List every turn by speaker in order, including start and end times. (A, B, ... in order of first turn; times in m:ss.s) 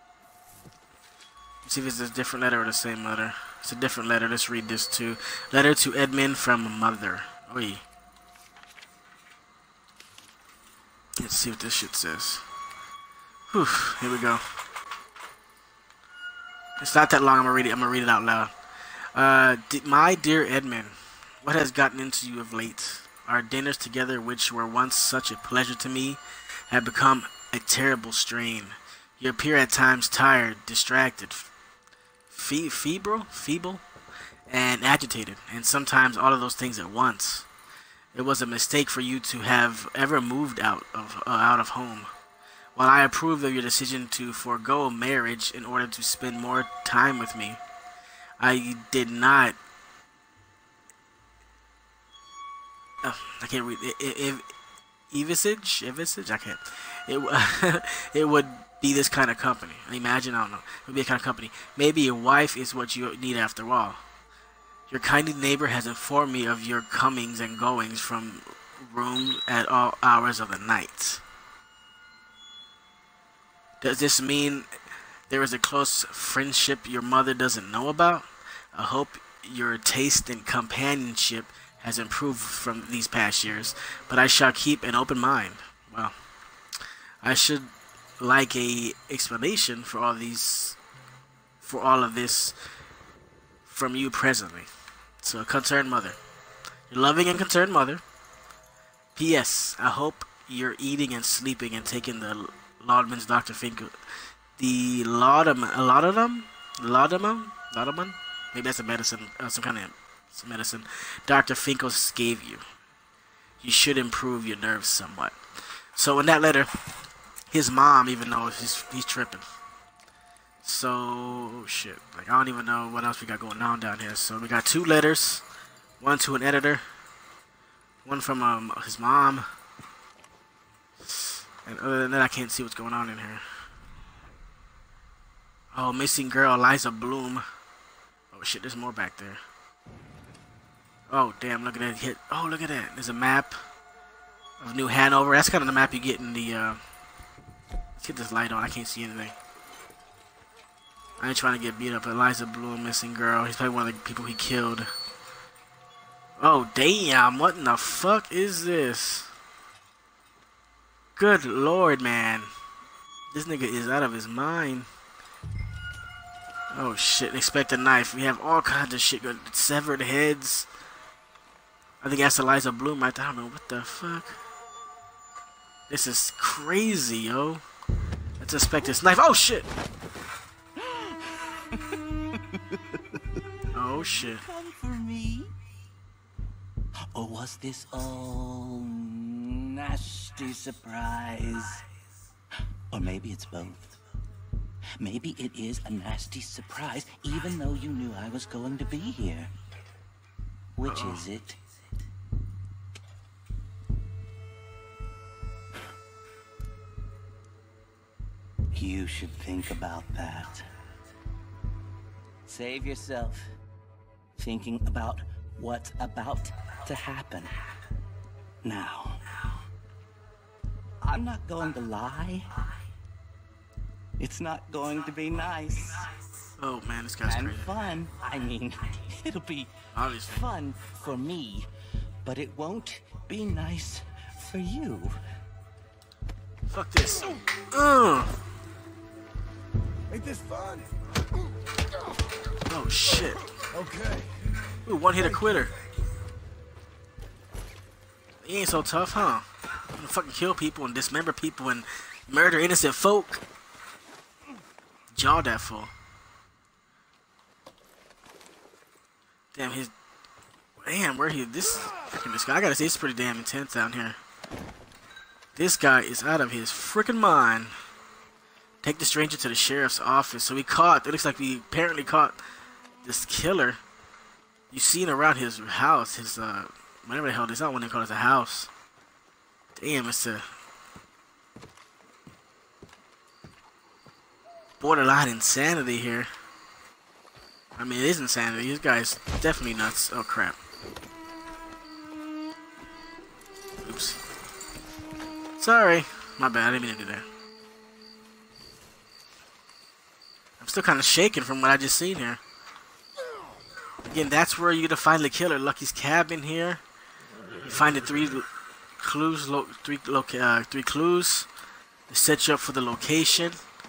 0:01.6-0:07.8 A
0:11.2-0:12.4 A
0:13.5-0:14.4 A
0:16.8-0:18.5 A
0:19.2-0:31.5 A
0:32.3-0:33.8 A
0:34.5-0:37.5 A
0:38.1-0:42.1 A
0:42.8-0:47.6 A
0:48.4-0:49.6 A
0:53.0-0:54.4 A
0:55.1-1:04.0 A
1:04.9-1:11.2 A
1:13.8-1:14.7 A
1:15.3-1:26.1 A
1:27.2-1:30.8 A
1:31.6-1:32.6 A
1:33.7-1:34.7 A
1:35.2-1:36.2 A
1:36.9-1:38.0 A
1:39.2-1:43.9 A
1:44.6-1:52.6 A
1:53.6-1:55.4 A
1:56.0-1:56.7 A
1:57.5-1:59.4 A
2:00.6-2:05.4 A
2:06.0-2:06.8 A
2:08.0-2:09.5 A
2:11.0-2:13.4 A
2:15.7-2:17.4 A
2:18.3-2:19.4 A
2:21.1-2:23.6 A
2:24.6-2:26.8 A
2:28.0-2:29.4 A
2:31.2-2:34.9 A
2:36.4-2:39.3 A
2:41.2-2:42.5 A
2:43.3-2:44.9 A
2:46.7-2:50.7 A
2:52.0-2:54.4 A
2:55.9-2:57.6 A
2:58.4-2:59.7 A
3:00.8-3:02.0 B
3:03.7-3:04.4 A
3:04.0-3:05.5 B
3:07.2-3:11.8 B
3:12.9-3:14.0 B
3:15.0-3:19.5 B
3:20.8-3:21.6 B
3:20.8-3:21.2 A
3:28.7-3:30.7 B
3:32.5-3:33.5 B
3:34.4-3:37.5 B
3:38.6-3:39.2 B
3:41.0-3:42.5 B
3:44.2-3:46.1 B
3:46.6-3:47.7 A
3:47.2-3:49.7 B
3:49.9-3:50.4 A
3:50.3-3:51.7 B
3:52.2-3:55.2 B
3:56.7-3:58.4 A
4:00.1-4:02.2 C
4:02.7-4:03.6 A
4:03.6-4:05.7 C
4:04.9-4:05.7 A
4:08.4-4:13.4 A
4:15.1-4:15.9 A
4:19.5-4:19.9 A
4:20.8-4:24.2 A
4:25.6-4:27.7 A
4:28.8-4:32.4 A
4:33.0-4:33.8 A
4:34.7-4:38.7 A
4:39.8-4:40.5 A
4:44.8-4:46.3 A
4:47.8-4:50.6 A
4:53.8-4:54.2 A
4:55.6-4:57.3 A
5:00.6-5:02.4 A
5:04.1-5:06.8 A
5:07.6-5:08.5 A
5:09.0-5:11.5 A
5:12.1-5:13.6 A